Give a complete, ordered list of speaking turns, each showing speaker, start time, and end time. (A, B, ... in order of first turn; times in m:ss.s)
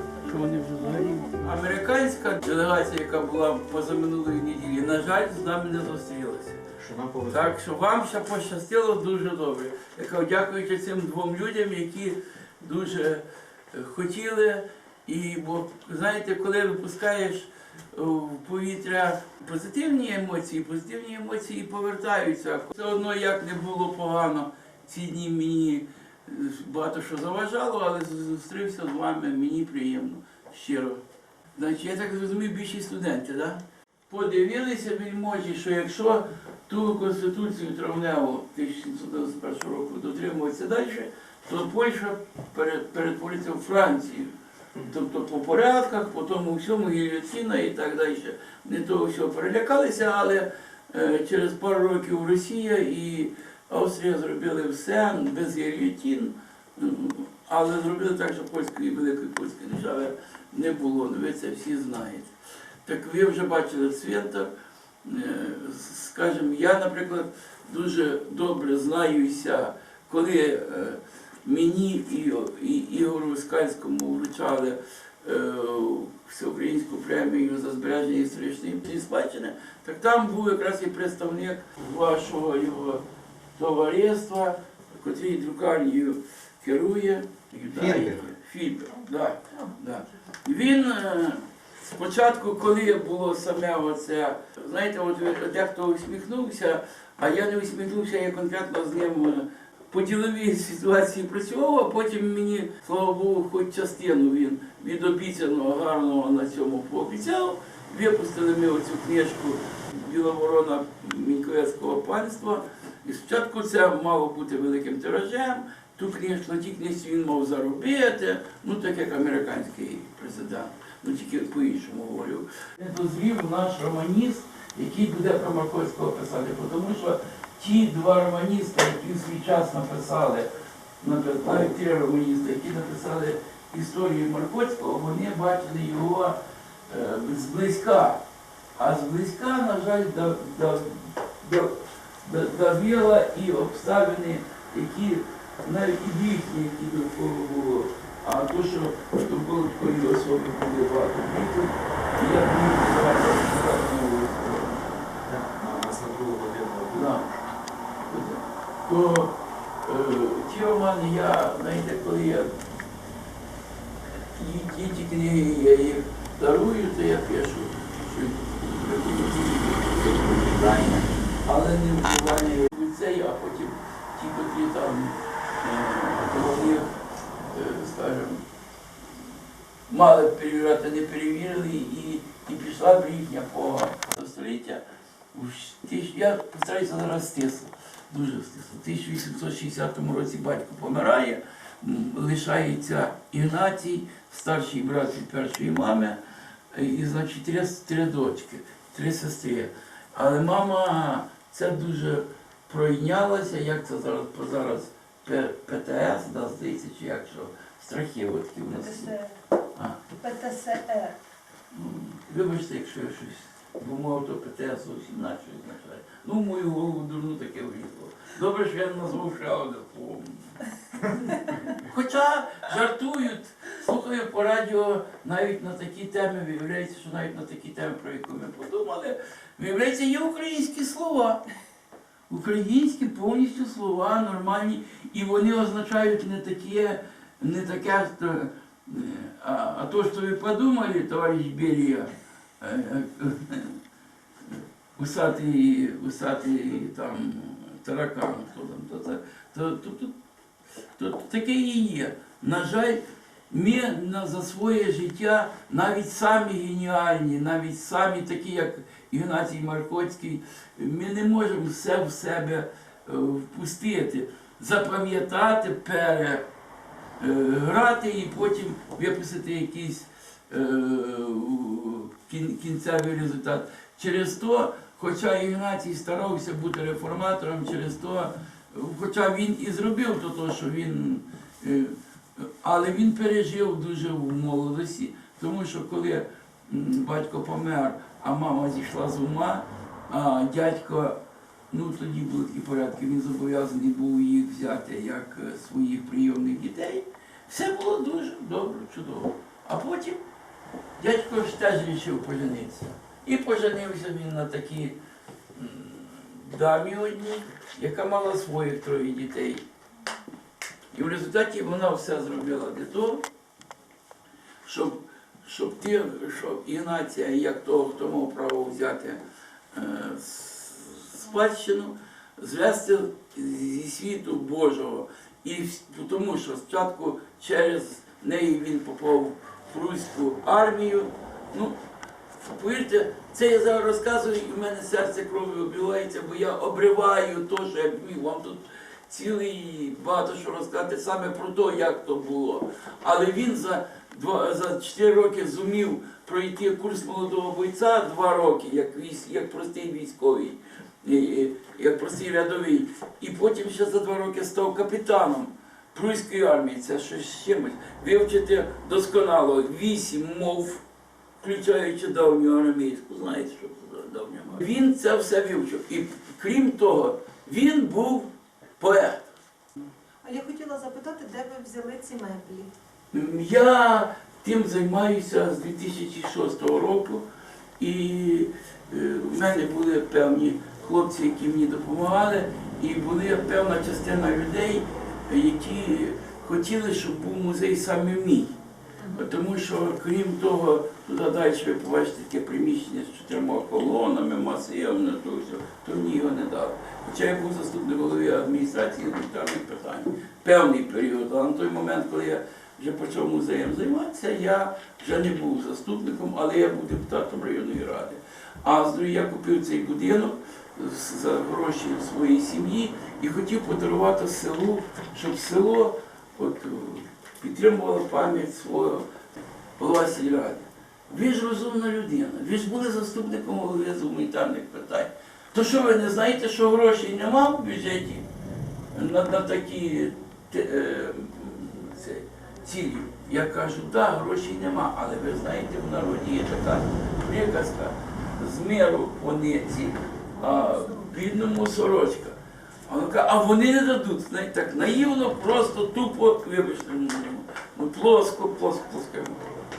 0:00.2-0:06.6 A
0:06.8-0:07.6 B
0:07.3-0:31.0 A
0:31.6-1:02.3 A
1:02.8-1:04.5 A
1:05.0-1:23.0 A
1:23.6-2:10.5 A
1:27.7-1:28.2 B
2:11.0-2:18.2 A
2:18.8-2:35.0 A
2:35.2-2:37.3 B
2:36.9-2:37.3 A
2:38.1-2:42.5 A
2:44.4-2:56.9 A
2:50.6-2:50.8 B
2:57.5-2:58.4 A
2:59.9-3:04.8 A
3:05.3-3:16.2 A
3:16.7-3:29.1 A
3:28.7-3:29.3 C
3:29.8-3:30.0 A
3:30.2-3:31.2 C
3:31.7-3:40.5 A
3:41.7-3:51.4 A
3:52.3-4:03.8 A
4:04.5-4:10.1 A
4:11.0-4:26.5 A
4:27.2-5:00.2 A
5:01.0-5:05.0 A
5:05.5-5:09.6 A
5:10.9-5:13.2 A
5:14.6-5:19.2 A
5:19.7-5:31.8 A
5:32.4-6:00.8 A
6:01.4-6:09.3 A
6:10.2-6:12.7 C
6:13.1-6:17.3 A
6:17.8-6:28.6 A
6:29.1-6:59.1 A
6:59.8-7:08.3 A
7:08.9-7:29.5 A
7:20.4-7:21.0 C